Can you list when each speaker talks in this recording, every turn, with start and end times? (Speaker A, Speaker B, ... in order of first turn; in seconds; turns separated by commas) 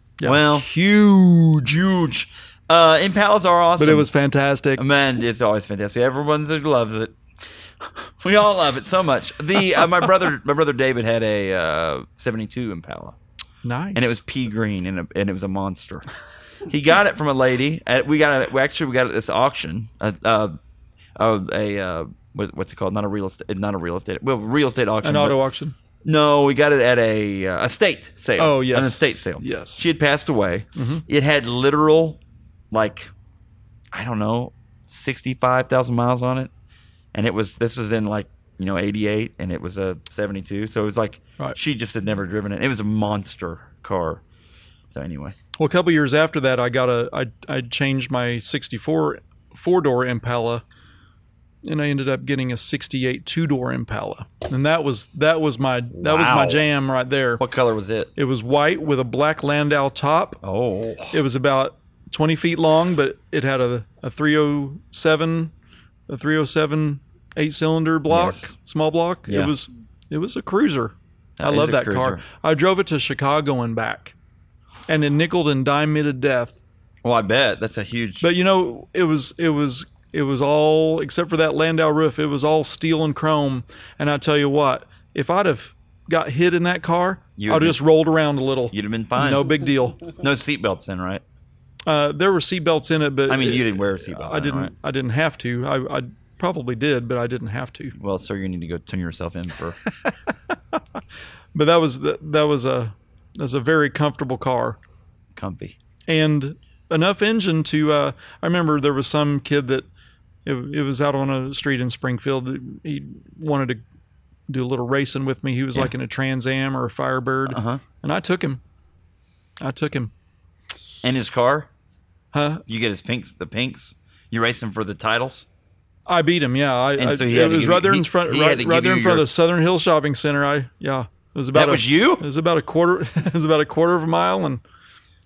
Speaker A: 0.2-1.8, Speaker B: 0.2-0.7, Speaker B: 1.6-4.1, Speaker A: 3.8-4.8, Speaker B: 4.8-7.2, Speaker B: 7.8-13.2, Speaker A: 13.6-14.2, Speaker B: 13.9-16.1, Speaker B: 16.7-20.6, Speaker B: 21.2-25.4, Speaker A: 25.0-25.8, Speaker B: 26.0-32.2, Speaker A: 28.4-29.9, Speaker A: 30.8-31.0, Speaker B: 32.7-33.1, Speaker B: 33.9-36.5, Speaker B: 37.1-44.2, Speaker B: 44.9-45.4, Speaker A: 45.6-50.6, Speaker A: 51.6-57.4, Speaker B: 55.9-56.6, Speaker B: 57.4-58.1, Speaker A: 58.1-60.4, Speaker B: 60.4-61.2, Speaker A: 61.1-65.5, Speaker A: 66.1-74.1, Speaker B: 68.1-68.5, Speaker B: 69.3-69.5, Speaker B: 71.4-72.2, Speaker A: 74.9-76.6, Speaker B: 77.0-78.3, Speaker A: 78.2-90.1, Speaker B: 87.4-87.8, Speaker B: 88.7-89.5, Speaker B: 90.1-91.2, Speaker A: 91.8-97.9, Speaker B: 93.3-94.7, Speaker B: 98.0-99.8, Speaker A: 101.5-104.8, Speaker B: 105.3-105.8, Speaker A: 106.1-109.8, Speaker A: 110.4-113.8, Speaker A: 114.5-118.6, Speaker B: 117.5-117.8, Speaker A: 119.6-120.1, Speaker B: 121.0-121.7, Speaker A: 122.3-122.6, Speaker B: 122.7-125.5, Speaker A: 126.1-134.6, Speaker B: 127.0-129.3, Speaker B: 131.5-132.2